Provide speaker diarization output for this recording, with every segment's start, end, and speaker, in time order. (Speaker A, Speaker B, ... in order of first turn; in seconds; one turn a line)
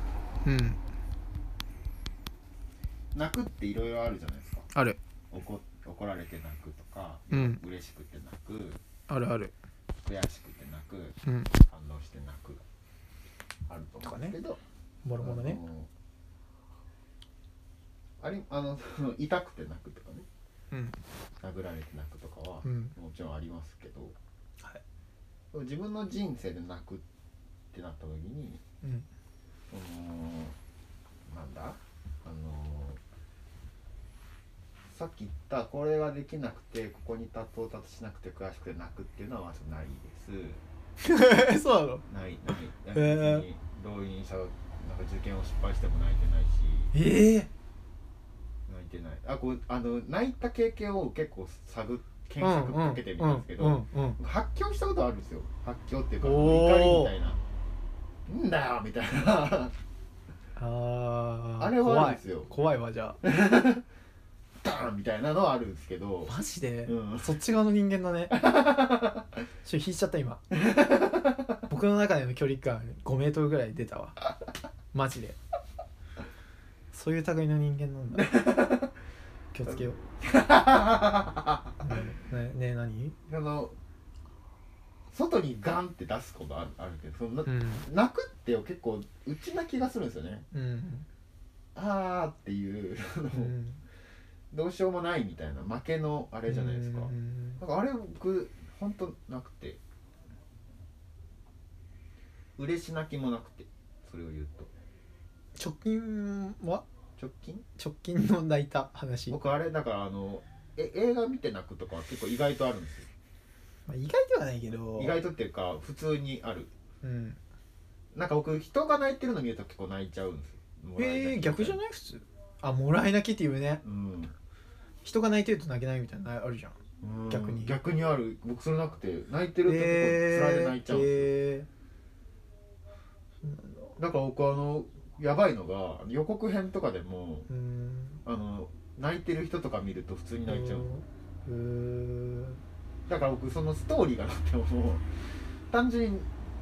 Speaker A: 0.5-0.8
Speaker B: 3.1-4.7
Speaker A: 4.7-5.0
Speaker B: 5.3-8.8
Speaker A: 7.3-7.6
Speaker A: 9.1-9.5
Speaker B: 10.1-12.6
Speaker A: 11.2-11.5
Speaker B: 13.7-14.6
Speaker A: 14.0-14.4
Speaker A: 15.0-15.6
Speaker B: 15.2-15.9
Speaker B: 18.2-20.3
Speaker A: 20.7-21.0
Speaker B: 21.4-24.1
Speaker A: 22.6-22.9
Speaker B: 25.5-27.1
Speaker B: 27.7-28.6
Speaker B: 29.7-30.6
Speaker B: 31.3-33.0
Speaker B: 34.9-40.6
Speaker A: 41.0-42.0
Speaker B: 42.1-46.9
Speaker A: 42.9-43.5
Speaker A: 46.9-47.5
Speaker B: 48.7-57.4
Speaker A: 52.4-54.2
Speaker A: 56.2-57.1
Speaker B: 58.3-59.7
Speaker A: 60.6-63.2
Speaker B: 61.6-62.5
Speaker B: 63.2-63.8
Speaker B: 64.6-67.4
Speaker A: 66.3-68.3
Speaker B: 68.3-69.3
Speaker A: 69.7-70.4
Speaker B: 70.5-71.6
Speaker A: 71.7-74.2
Speaker A: 74.9-75.4
Speaker A: 76.9-78.3
Speaker B: 78.1-78.9
Speaker A: 79.5-80.0
Speaker B: 79.7-81.8
Speaker A: 81.8-83.2
Speaker B: 83.3-83.8
Speaker B: 85.1-90.5
Speaker A: 87.5-87.8
Speaker A: 90.5-91.1
Speaker B: 91.8-93.5
Speaker A: 93.3-93.8
Speaker B: 94.5-99.8
Speaker A: 96.5-97.6
Speaker B: 102.6-104.7
Speaker A: 105.6-106.8
Speaker B: 107.2-107.6
Speaker A: 107.8-109.4
Speaker B: 109.3-113.1
Speaker A: 113.9-115.2
Speaker B: 115.0-116.7
Speaker A: 117.0-117.4
Speaker B: 118.1-121.8
Speaker A: 121.0-123.8
Speaker B: 123.8-124.3
Speaker A: 125.0-126.8
Speaker B: 127.0-131.3
Speaker A: 127.3-127.8
Speaker A: 129.7-131.7
Speaker A: 133.4-133.9
Speaker B: 134.0-137.5
Speaker A: 137.5-138.2
Speaker B: 138.2-140.9
Speaker A: 140.5-142.6
Speaker B: 143.1-145.1
Speaker B: 145.7-146.3